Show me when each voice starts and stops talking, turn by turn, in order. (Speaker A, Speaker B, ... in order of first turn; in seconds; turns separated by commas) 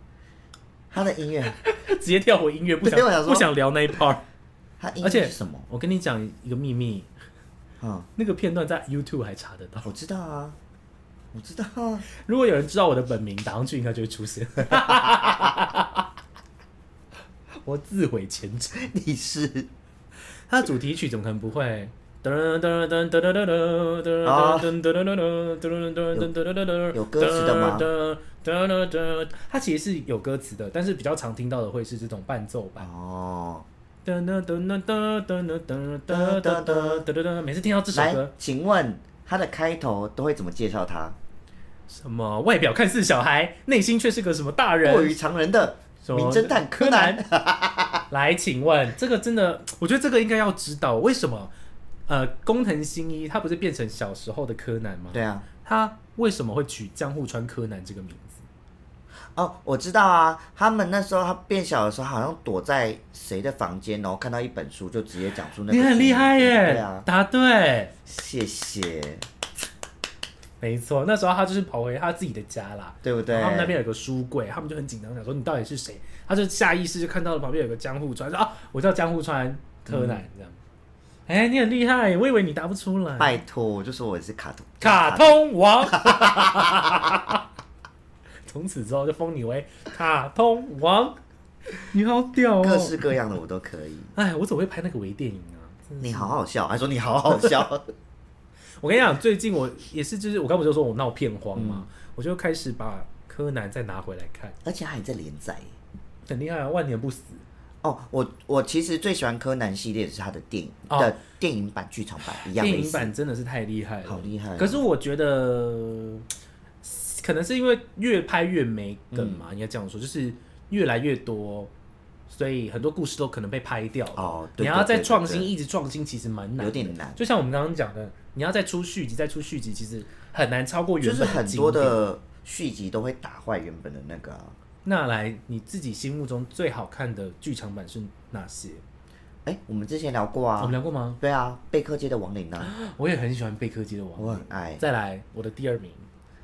Speaker A: 0.9-1.6, Speaker B: 1.5-4.2, Speaker A: 2.8-3.5, Speaker A: 4.8-5.7, Speaker B: 5.0-7.1, Speaker A: 7.8-8.1, Speaker B: 8.2-9.9, Speaker A: 9.8-10.6, Speaker A: 11.3-12.1, Speaker B: 12.2-16.1, Speaker B: 17.6-18.9, Speaker A: 18.7-19.7, Speaker B: 20.5-32.9, Speaker A: 24.2-24.7, Speaker A: 26.9-27.9, Speaker A: 32.8-33.6, Speaker B: 34.0-38.3, Speaker A: 36.1-37.0, Speaker A: 37.9-41.1, Speaker B: 41.9-45.1, Speaker A: 44.8-48.0, Speaker B: 46.0-47.2, Speaker B: 48.1-51.5, Speaker B: 52.1-58.4, Speaker A: 55.1-55.4, Speaker A: 59.3-67.0, Speaker B: 65.7-67.9, Speaker A: 68.1-69.2, Speaker B: 70.6-80.6, Speaker A: 73.0-73.8, Speaker A: 79.9-80.2, Speaker B: 81.3-83.4, Speaker A: 83.2-85.4, Speaker B: 84.8-87.4, Speaker A: 85.9-87.1, Speaker B: 88.5-91.2, Speaker B: 91.8-93.1, Speaker A: 92.6-94.1, Speaker B: 94.2-96.4, Speaker A: 96.0-97.9, Speaker B: 98.8-104.5, Speaker A: 101.5-101.8, Speaker A: 104.6-105.7, Speaker B: 106.3-107.4, Speaker A: 107.8-113.1, Speaker B: 112.3-116.2, Speaker A: 114.0-114.8, Speaker B: 116.8-121.7, Speaker A: 119.1-119.4, Speaker B: 122.3-132.0, Speaker A: 124.1-125.5, Speaker A: 126.6-127.2, Speaker A: 131.0-134.5, Speaker B: 134.8-138.8, Speaker A: 139.4-142.7, Speaker B: 140.6-141.2, Speaker B: 142.6-146.1, Speaker A: 144.2-144.8